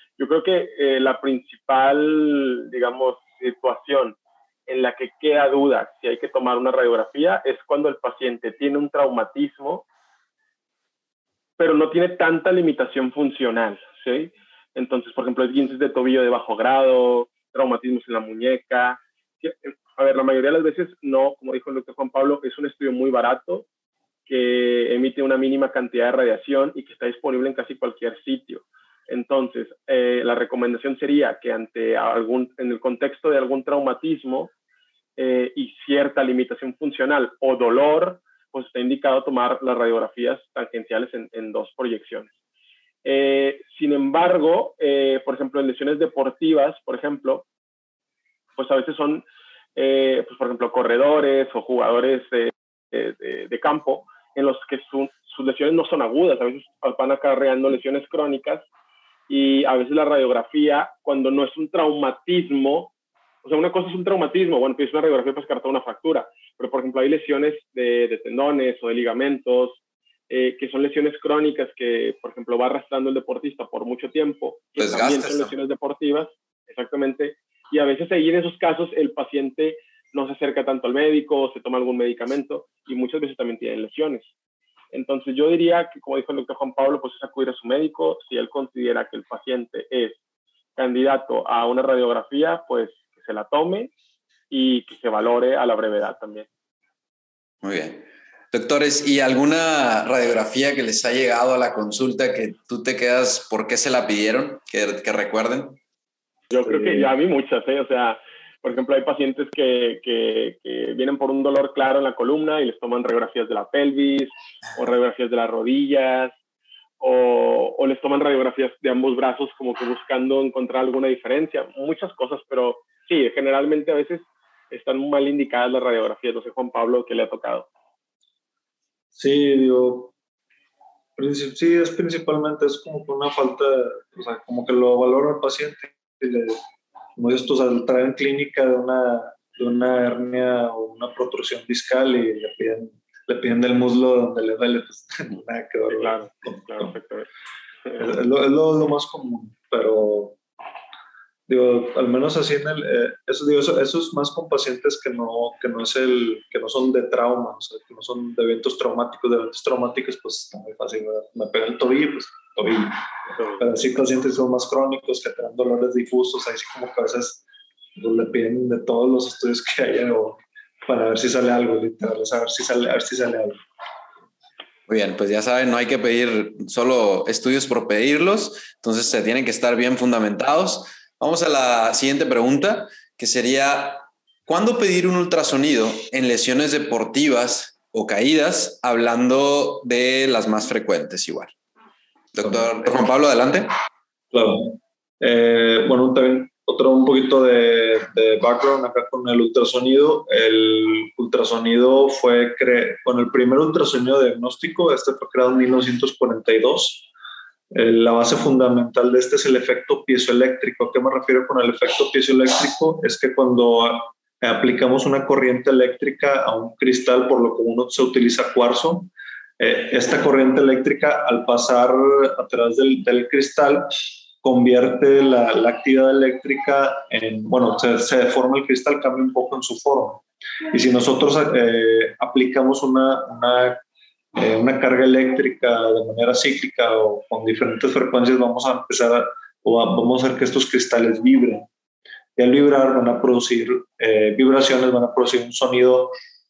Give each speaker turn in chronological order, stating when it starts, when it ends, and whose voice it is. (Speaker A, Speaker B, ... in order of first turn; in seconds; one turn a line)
Speaker A: 0.2-4.2
Speaker A: 4.7-9.8
Speaker A: 11.6-23.6
Speaker A: 24.3-34.5
Speaker A: 35.2-42.3
Speaker A: 43.0-47.4
Speaker A: 48.6-49.2
Speaker A: 49.8-58.6
Speaker A: 59.3-62.9
Speaker A: 63.4-84.3
Speaker B: 74.8-75.5
Speaker A: 84.9-90.2
Speaker A: 90.8-93.9
Speaker A: 94.5-96.5
Speaker B: 97.6-105.8
Speaker A: 106.5-116.3
Speaker A: 117.0-127.7
Speaker C: 129.1-130.1
Speaker C: 131.2-136.6
Speaker C: 137.2-146.9
Speaker A: 145.9-147.3
Speaker C: 147.9-150.4
Speaker C: 151.5-163.0
Speaker C: 163.6-167.4
Speaker C: 167.9-173.6
Speaker B: 174.9-191.5
Speaker B: 192.3-193.7
Speaker C: 192.4-192.7
Speaker C: 194.3-207.1
Speaker C: 207.7-233.8
Speaker C: 234.3-241.7
Speaker C: 242.4-246.2